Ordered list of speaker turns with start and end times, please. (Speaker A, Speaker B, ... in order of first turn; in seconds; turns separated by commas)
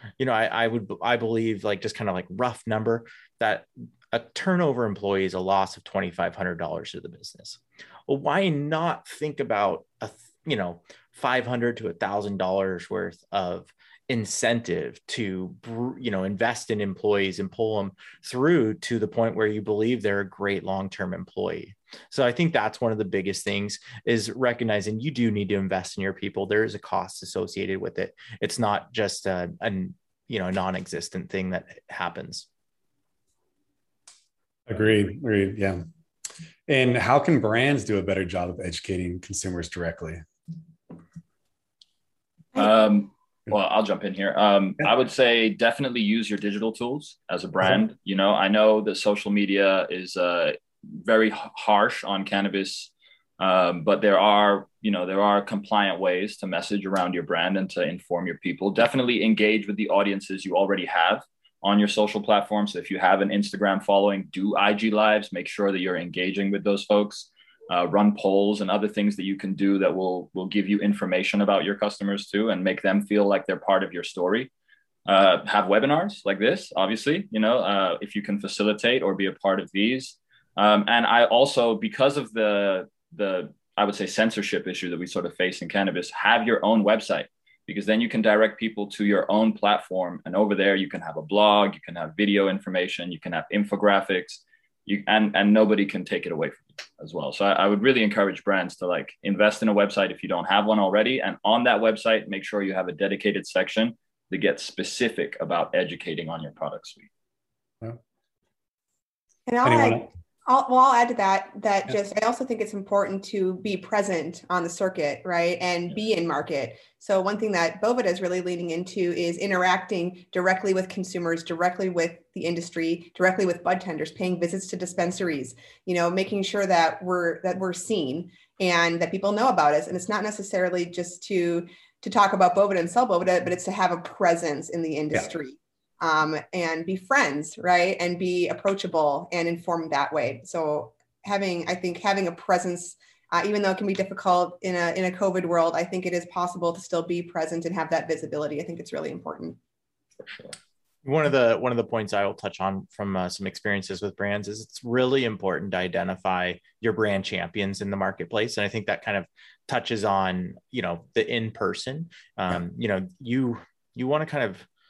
Speaker A: 0.2-32.5, Speaker B: 34.7-35.8, Speaker B: 36.7-40.2, Speaker C: 42.5-74.5, Speaker C: 75.0-107.1, Speaker D: 109.5-149.6, Speaker B: 109.6-110.0, Speaker C: 150.2-150.6, Speaker A: 151.0-164.7